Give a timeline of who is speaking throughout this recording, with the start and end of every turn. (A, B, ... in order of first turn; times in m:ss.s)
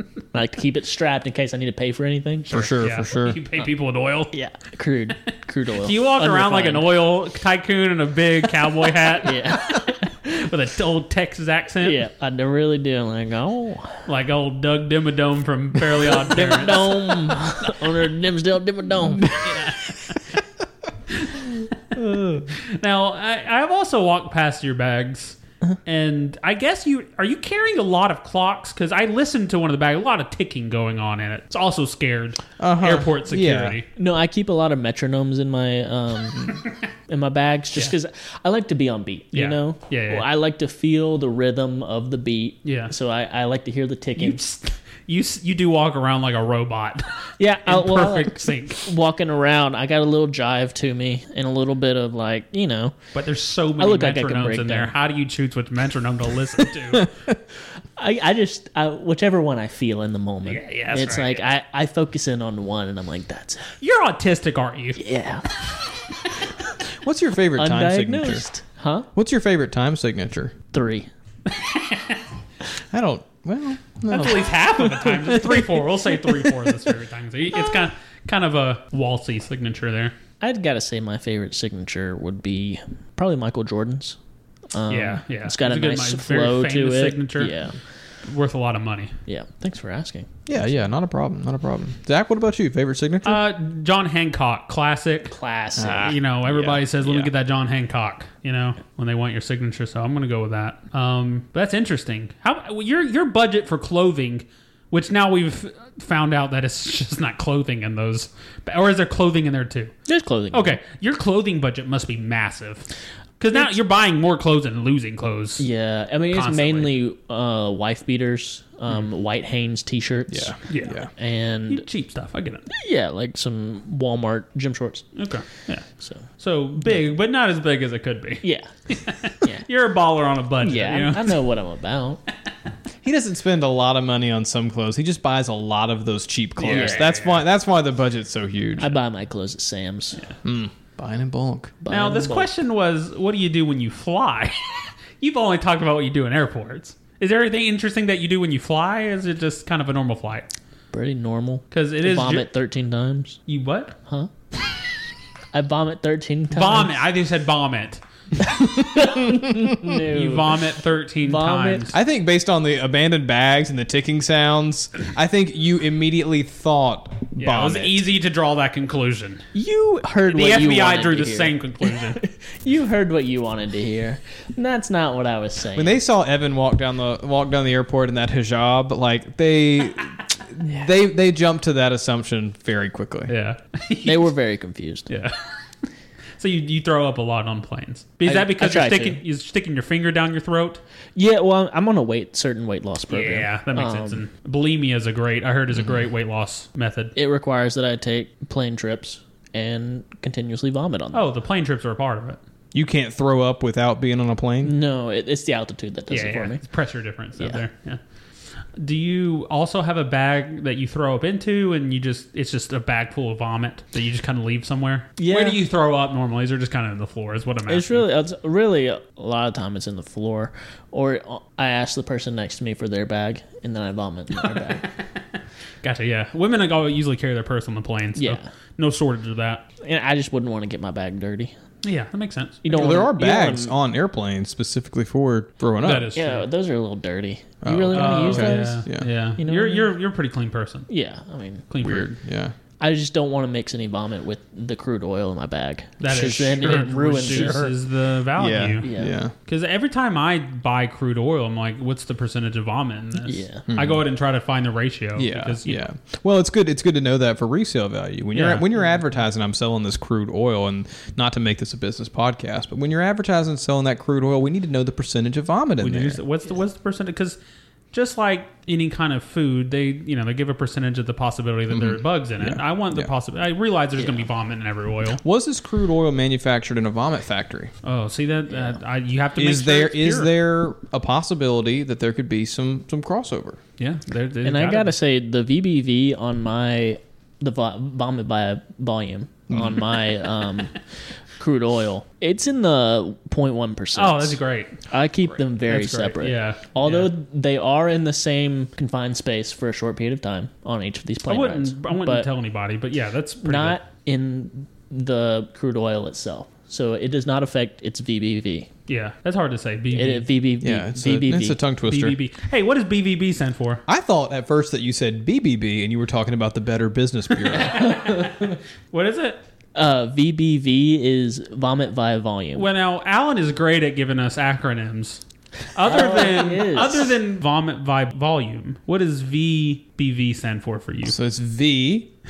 0:00.3-0:02.6 A
0:02.5-0:04.3 B
0:02.5-0:03.4 C
0:04.3-0:06.9 A
0:05.8-0:12.0 B
0:09.1-0:10.3 A
0:11.8-0:14.0 A
0:14.1-0:17.7 B
0:16.1-0:19.4 A
0:19.2-0:20.2 B
0:21.2-0:21.6 B
0:22.0-0:22.4 A
0:22.7-0:33.9 B
0:32.6-0:33.8 C
0:34.0-0:44.4 A
0:39.3-0:40.3 B
0:42.6-0:42.9 B
0:44.2-0:47.1 B
0:47.4-0:52.9 A
0:47.6-0:48.8 B
0:53.1-0:57.1 B
0:53.8-0:54.9 A
0:58.0-1:03.7 A
1:00.4-1:01.5 B
1:03.8-1:05.0 B
1:05.0-1:05.5 A
1:07.0-1:08.5 C
1:07.6-1:09.1 A
1:09.1-1:10.5 C
1:10.7-1:11.1 A
1:11.5-1:12.2 B
1:12.9-1:14.6 C
1:14.1-1:20.1 B
1:15.2-1:16.1 A
1:20.4-1:24.2 A
1:24.7-1:27.8 A
1:24.9-1:27.5 B
1:28.2-1:29.1 B
1:29.3-1:30.3 A
1:30.5-1:33.4 C
1:33.2-1:35.4 B
1:35.3-1:36.2 A
1:35.8-1:37.3 C
1:35.9-1:49.9 B
1:50.1-1:50.8 A
1:50.5-1:52.9 B
1:53.4-1:55.7 B
1:55.6-2:01.8 A
1:56.3-1:57.0 B
2:00.3-2:01.1 C
2:00.7-2:01.0 B
2:01.7-2:02.7 B
2:02.7-2:05.0 A
2:05.2-2:11.4 B
2:08.4-2:08.7 A
2:10.6-2:12.2 A
2:13.0-2:19.0 C
2:16.6-2:17.0 A
2:16.6-2:17.4 B
2:18.8-2:20.2 A
2:20.4-2:21.7 C
2:21.8-2:22.5 A
2:21.9-2:30.5 B
2:30.9-2:33.4 A
2:31.7-2:32.5 B
2:33.5-2:33.9 B
2:35.5-2:36.9 A
2:36.5-2:38.0 B
2:38.4-2:40.5 A
2:39.9-2:42.0 B
2:41.2-2:41.8 A
2:41.9-2:48.0 C
2:47.4-2:49.4 B
2:49.5-2:56.0 A
2:50.2-2:52.2 B
2:55.7-3:03.3 C
3:03.3-3:04.3 B
3:04.0-3:05.1 A
3:05.1-3:05.4 B
3:06.4-3:10.8 B
3:08.2-3:09.2 A
3:11.2-3:14.2 A
3:13.1-3:17.1 B
3:17.2-3:21.2 A
3:21.1-3:22.4 B
3:22.7-3:24.7 C
3:24.6-3:26.6 A
3:26.1-3:28.0 B
3:28.8-3:38.1 B
3:35.2-3:35.6 A
3:37.7-3:44.8 A
3:45.8-3:49.6 B
3:48.2-3:48.5 A
3:49.8-3:51.5 A
3:51.8-3:52.6 B
3:52.6-3:53.7 A
3:52.7-3:56.1 C
3:55.8-3:56.5 B
3:56.1-3:58.8 A
3:57.6-3:59.1 C
3:57.9-4:00.9 B
3:59.4-3:59.9 A
4:00.9-4:01.6 A
4:01.7-4:02.2 B
4:01.8-4:02.5 C
4:02.8-4:07.7 A
4:06.0-4:08.9 B
4:07.2-4:07.7 C
4:08.4-4:09.3 C
4:08.8-4:09.1 A
4:09.4-4:15.8 B
4:13.2-4:13.6 A
4:13.7-4:14.0 C
4:15.2-4:26.2 C
4:18.3-4:18.7 B
4:25.8-4:27.4 B
4:27.9-4:35.2 B
4:31.7-4:33.1 C
4:34.0-4:34.3 A
4:35.1-4:37.7 C
4:37.8-4:40.3 B
4:38.5-4:38.8 A
4:39.4-4:43.6 C
4:43.8-4:44.9 B
4:44.4-4:50.7 A
4:49.5-4:49.8 C
4:51.4-5:02.3 A
4:54.0-4:54.8 B
4:55.6-4:57.1 B
5:01.3-5:03.8 B
5:03.4-5:08.7 A
5:08.9-5:10.3 B
5:09.9-5:11.6 A
5:10.6-5:12.2 C
5:11.9-5:13.8 B
5:13.9-5:17.9 C
5:17.4-5:19.4 B
5:19.7-5:22.7 A
5:22.5-5:25.2 B
5:25.8-5:31.2 B
5:25.8-5:27.1 A
5:31.0-5:32.1 C